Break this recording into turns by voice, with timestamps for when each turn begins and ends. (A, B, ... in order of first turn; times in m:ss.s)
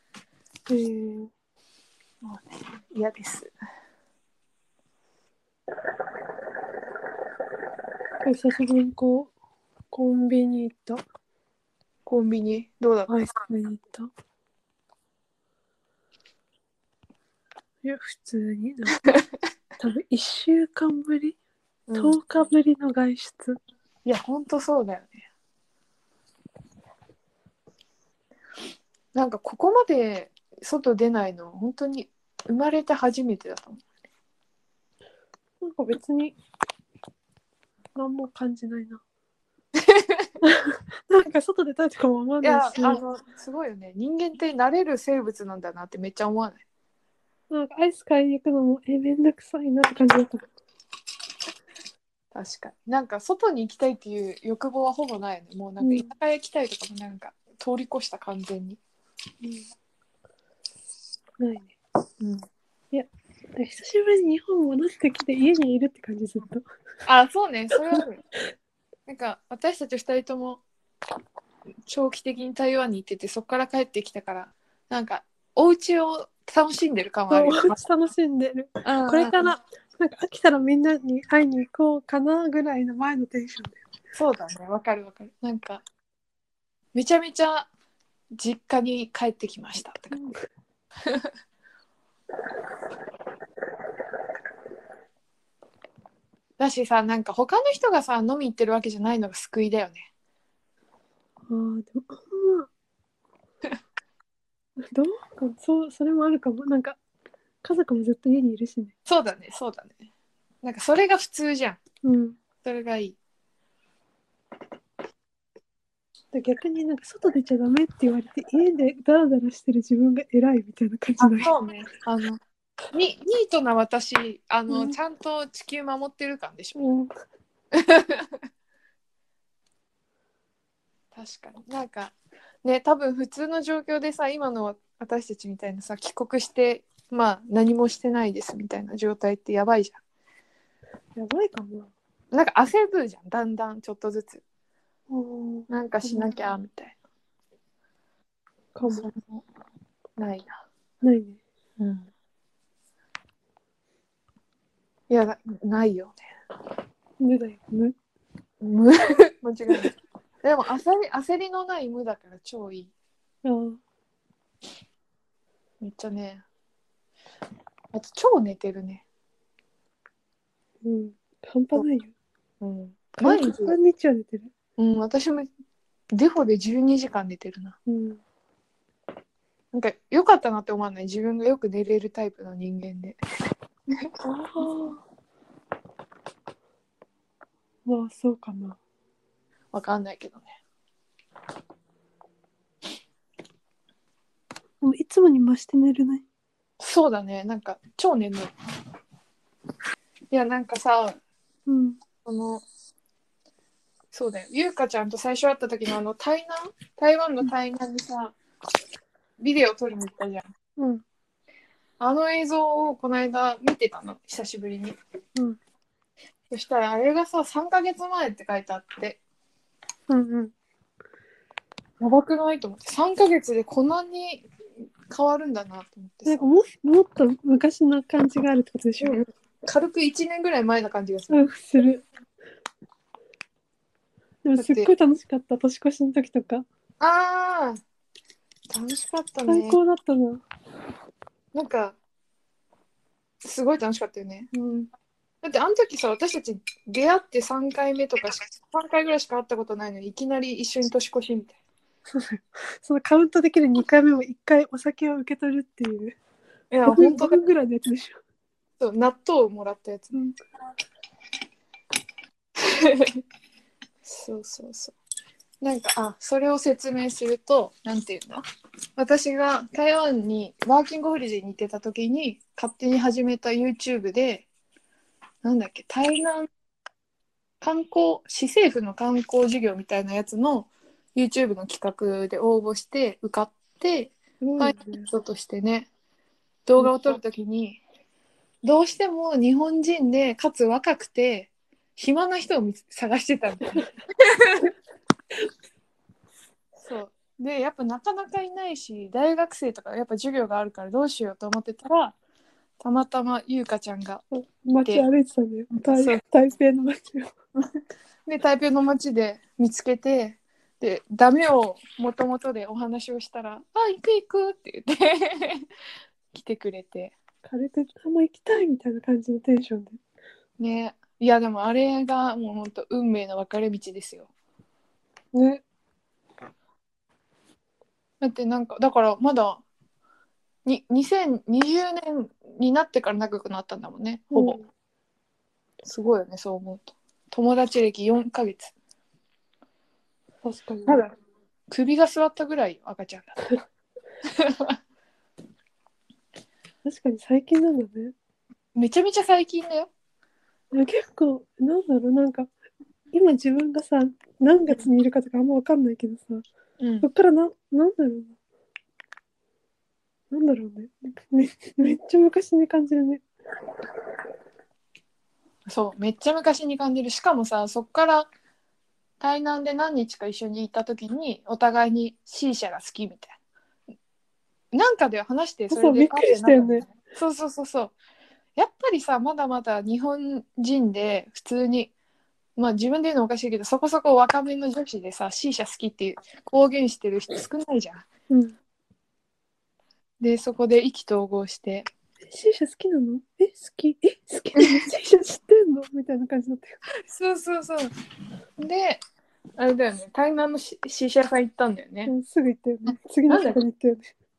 0:00.7-0:01.3 A
0:02.2-0:03.5 B
0:08.2-0:09.3 A
0:09.9-0:11.0 A
0:12.1-0:13.1 B
0:13.1-0:14.1 A
0:17.8-0:19.0 A
0:19.8-0:21.4 A
0:21.9-0:22.2 B
0:21.9-0:23.6 A
0:24.0-0:25.2 B
0:29.1-0:33.8 B
0:35.6-0:36.4 A
0:38.0-0:39.0 A
0:39.8-0:40.3 B
0:40.4-0:43.0 A
0:42.4-0:46.6 B
0:47.5-0:50.4 A
0:52.3-0:58.8 B
0:55.8-0:56.1 A
1:01.4-1:01.8 A
1:02.2-1:02.4 B
1:02.9-1:06.6 A
1:07.1-1:08.2 B
1:09.1-1:10.6 B
1:11.9-1:17.8 B
1:17.3-1:23.8 A
1:18.8-1:19.5 B
1:24.1-1:25.8 B
1:26.9-1:27.7 B
1:28.4-1:30.2 B
1:30.1-1:30.4 A
1:36.6-1:40.1 B
1:41.5-1:42.7 A
1:44.8-1:47.0 A
1:47.6-1:48.9 A
1:49.1-1:50.0 B
1:50.6-1:51.8 B
1:52.0-1:52.4 A
1:52.6-1:53.2 B
1:56.3-2:01.5 A
2:01.2-2:02.4 B
2:02.9-2:06.8 B
2:04.7-2:05.0 A
2:06.8-2:07.1 A
2:07.7-2:08.4 B
2:11.1-2:20.0 B
2:21.2-2:21.9 A
2:22.3-2:24.4 B
2:25.1-2:26.4 A
2:25.7-2:27.0 B
2:28.8-2:29.1 A
2:28.9-2:29.4 B
2:30.2-2:30.5 B
2:31.0-2:31.4 A
2:31.8-2:32.1 B
2:35.1-2:36.2 B
2:37.2-2:38.0 A
2:38.6-2:42.9 B
2:43.4-2:43.8 A
2:45.8-2:46.4 B
2:47.9-2:49.0 B
2:50.8-2:52.1 A
2:52.6-2:53.8 B
2:53.2-2:54.5 A
2:54.8-2:55.5 B
2:56.1-2:57.8 B
2:57.9-2:58.2 A
2:59.7-3:03.2 B
3:04.2-3:05.0 A
3:07.9-3:08.8 A
3:09.7-3:10.5 B
3:14.8-3:16.2 A
3:16.8-3:18.5 B
3:20.3-3:21.2 B
3:21.7-3:22.0 A
3:22.2-3:22.6 B
3:24.1-3:28.4 B
3:29.4-3:30.4 B
3:30.8-3:31.0 A
3:32.0-3:35.0 B
3:36.5-3:39.2 B
3:40.1-3:40.5 A
3:42.0-3:44.5 B
3:45.1-3:46.4 B
3:46.2-3:49.2 A
3:49.0-3:51.5 B
3:51.3-3:52.0 A
3:54.4-3:56.6 A
3:54.6-3:54.9 B
3:57.0-3:57.8 B
3:58.7-3:59.8 B
3:59.5-4:00.4 A
4:01.5-4:02.0 B
4:03.4-4:04.7 B
4:05.4-4:11.6 B
4:12.1-4:16.2 A
4:16.7-4:17.4 B
4:16.8-4:18.2 A
4:18.8-4:20.2 B
4:22.6-4:23.2 B
4:24.0-4:25.0 B
4:25.6-4:28.4 B
4:29.0-4:34.5 B
4:35.4-4:36.5 B
4:37.6-4:45.9 B
4:44.4-4:45.1 A
4:46.7-4:47.8 B
4:46.8-4:47.2 A
4:48.6-4:54.7 B
4:56.8-5:02.2 B
5:02.8-5:04.2 B
5:04.3-5:07.3 A
5:05.8-5:06.2 B
5:08.3-5:15.7 B
5:16.3-5:17.2 B
5:17.4-5:20.0 A
5:20.6-5:24.3 B
5:25.3-5:25.6 A
5:28.2-5:29.6 B
5:30.6-5:34.6 B
5:34.3-5:34.6 A
5:35.8-5:38.7 B
5:40.4-5:41.0 A
5:41.7-5:43.4 B
5:44.2-5:44.8 B
5:46.8-5:48.1 A
5:48.8-5:49.9 B
5:50.7-5:52.5 A
5:53.1-5:56.4 A
5:56.8-5:57.1 B
5:57.0-5:58.4 A
6:00.3-6:03.2 A
6:05.7-6:08.3 B
6:09.2-6:13.4 B
6:14.7-6:18.0 B
6:15.7-6:16.9 A
6:18.6-6:21.9 B
6:22.6-6:28.0 B
6:28.3-6:28.6 A
6:30.2-6:31.9 B
6:32.3-6:36.8 A
6:34.6-6:34.8 B
6:37.1-6:37.9 B
6:38.6-6:39.0 B
6:39.6-6:42.1 B
6:42.1-6:44.1 A
6:43.3-6:43.6 B